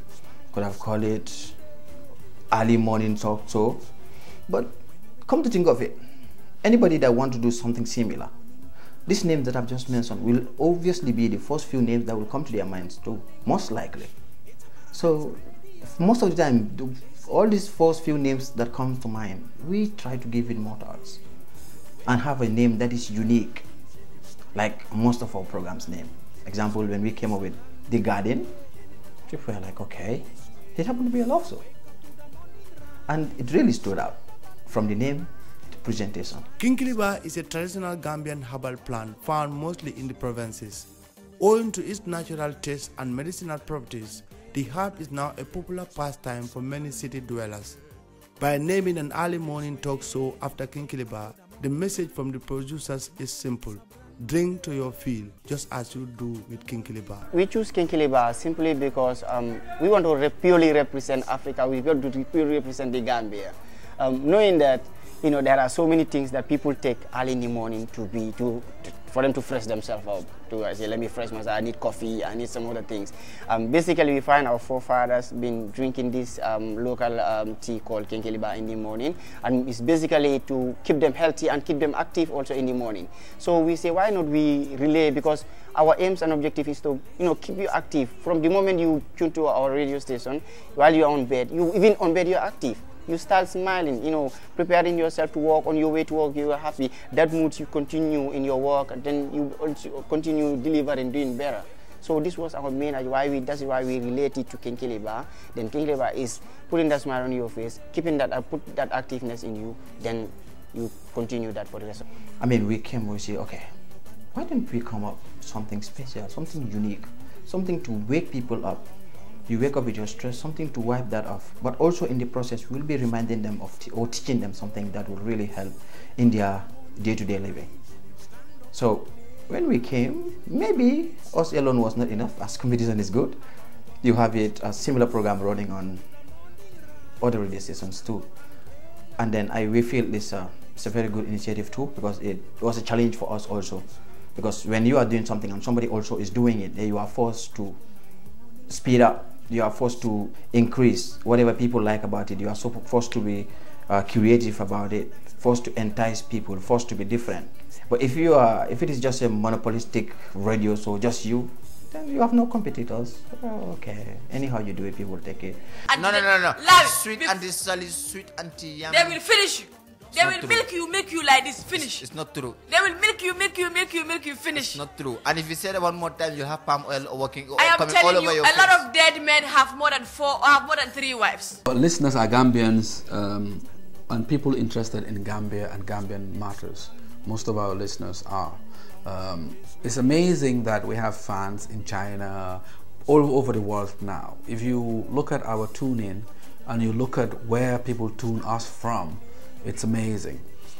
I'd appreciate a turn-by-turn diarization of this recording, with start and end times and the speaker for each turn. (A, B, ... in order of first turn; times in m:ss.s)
0:00.5-0:01.6 A
0:02.5-0:03.9 A
0:04.5-0:06.0 A
0:06.6-0:08.3 A
0:09.0-0:14.1 A
0:14.9-0:21.2 A
0:22.0-0:23.6 A
0:24.5-0:28.5 A
0:29.3-0:31.7 A
0:33.1-0:36.5 A
0:36.6-0:40.9 B
0:41.4-0:47.8 B
0:48.4-0:57.3 B
0:57.3-1:52.0 C
1:52.4-1:53.7 A
1:54.3-1:58.9 A
1:59.5-2:07.7 A
2:08.7-2:13.4 A
2:14.0-2:16.0 A
2:17.2-2:18.3 A
2:19.2-2:27.8 A
2:28.7-2:45.6 A
2:45.9-2:47.4 D
2:45.9-2:49.2 E
2:48.9-2:52.1 D
2:50.1-2:50.7 E
2:51.7-2:52.6 E
2:52.7-2:54.8 D
2:54.6-2:58.8 E
2:57.6-3:01.6 D
3:01.6-3:20.4 F